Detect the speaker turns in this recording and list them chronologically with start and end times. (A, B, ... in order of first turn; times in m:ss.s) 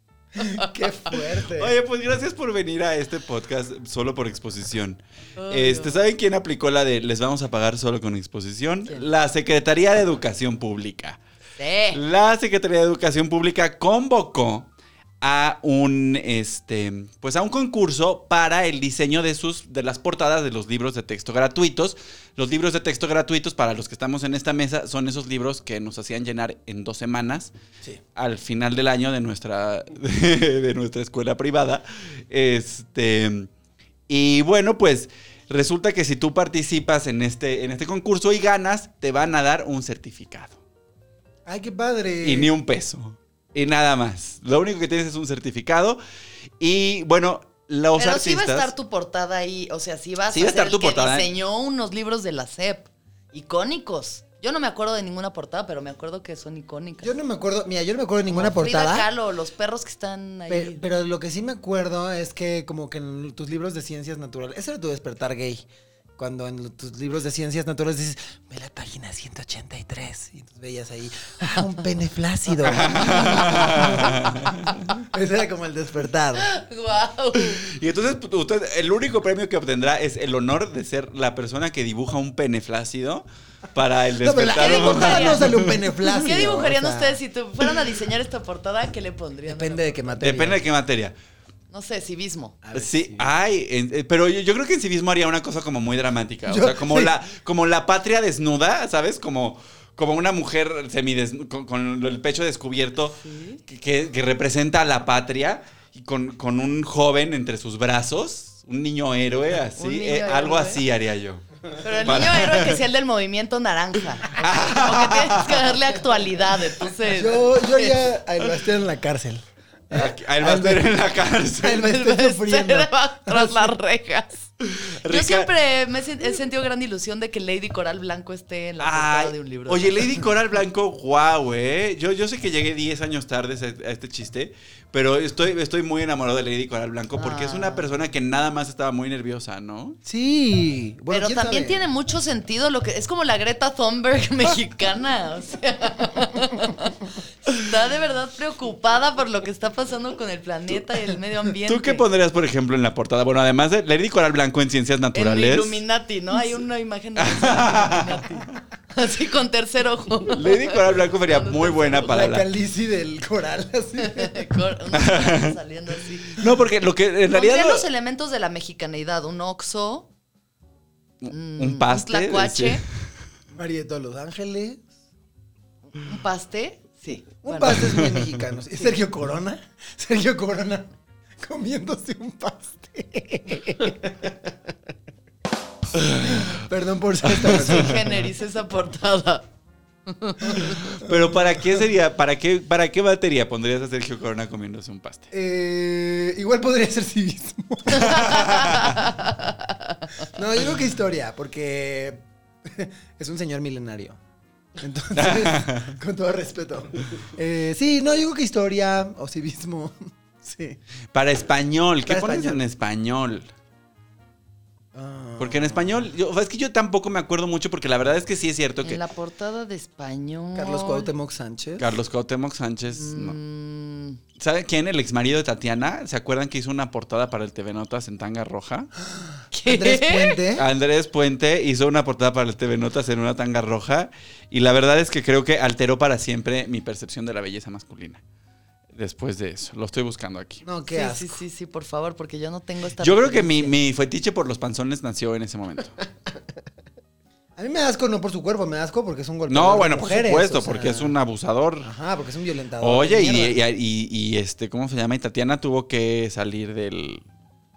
0:00.4-0:01.7 A
0:00.4-0:00.7 B
0:01.5-0:11.2 C
0:05.4-0:06.0 B
0:11.6-0:12.0 B
0:11.9-0:14.7 C
0:15.2-0:27.5 C
0:28.2-0:33.5 C
0:34.1-0:40.6 C
0:41.4-0:42.5 A
0:42.2-0:46.0 C
0:46.6-0:48.7 C
0:47.9-0:57.1 B
0:50.3-0:51.3 C
0:57.0-0:59.1 A
0:58.3-1:00.9 B
1:00.5-1:05.6 A
1:06.2-1:14.4 A
1:12.6-1:14.8 C
1:15.0-1:16.5 A
1:16.4-1:17.6 B
1:17.4-1:25.8 C
1:24.2-1:27.2 A
1:24.6-1:25.4 B
1:26.2-1:30.2 B
1:29.5-1:30.6 A
1:30.2-1:31.1 C
1:31.7-1:32.6 B
1:32.6-1:33.3 A
1:32.7-1:51.4 C
1:36.5-1:37.1 A
1:43.1-1:43.6 B
1:49.8-1:50.8 B
1:51.8-1:58.0 B
1:52.0-1:52.8 C
1:54.3-1:55.8 C
1:57.0-2:00.9 A
1:59.9-2:01.9 C
2:01.6-2:03.7 A
2:01.8-2:04.5 B
2:04.6-2:05.5 C
2:05.1-2:10.1 B
2:08.8-2:20.0 C
2:17.2-2:17.9 B
2:20.0-2:21.9 A
2:21.1-2:32.0 B
2:31.7-2:35.8 C
2:35.1-2:42.0 B
2:37.2-2:38.2 C
2:40.3-2:42.5 C
2:42.0-2:44.4 A
2:44.0-2:46.4 B
2:44.9-2:45.6 C
2:46.3-2:47.9 C
2:47.3-2:50.1 B
2:51.2-2:52.8 C
2:51.3-2:52.8 B
2:53.5-2:54.8 A
2:55.9-2:57.9 B
2:57.4-3:04.3 A
3:06.1-3:06.4 C
3:06.4-3:08.2 A
3:07.6-3:09.4 B
3:10.1-3:10.8 B
3:10.9-3:15.3 C
3:11.0-3:11.6 A
3:15.3-3:18.5 A
3:17.9-3:20.0 B
3:18.3-3:18.8 C
3:20.3-3:24.2 A
3:24.8-3:30.8 A
3:25.1-3:26.0 C
3:31.1-3:33.5 C
3:32.0-3:32.6 A
3:34.9-3:36.0 A
3:35.4-3:39.0 C
3:38.8-3:41.1 B
3:40.6-3:41.9 A
3:41.8-3:43.4 C
3:42.9-3:44.2 B
3:44.4-3:48.9 C
3:49.1-3:50.6 A
3:49.5-3:50.4 B
3:50.6-3:58.2 C
3:59.0-4:00.6 C
4:00.6-4:01.4 A
4:00.9-4:03.7 B
4:03.0-4:06.0 C
4:07.6-4:11.2 A
4:09.5-4:11.9 C
4:11.8-4:13.6 A
4:12.8-4:17.2 C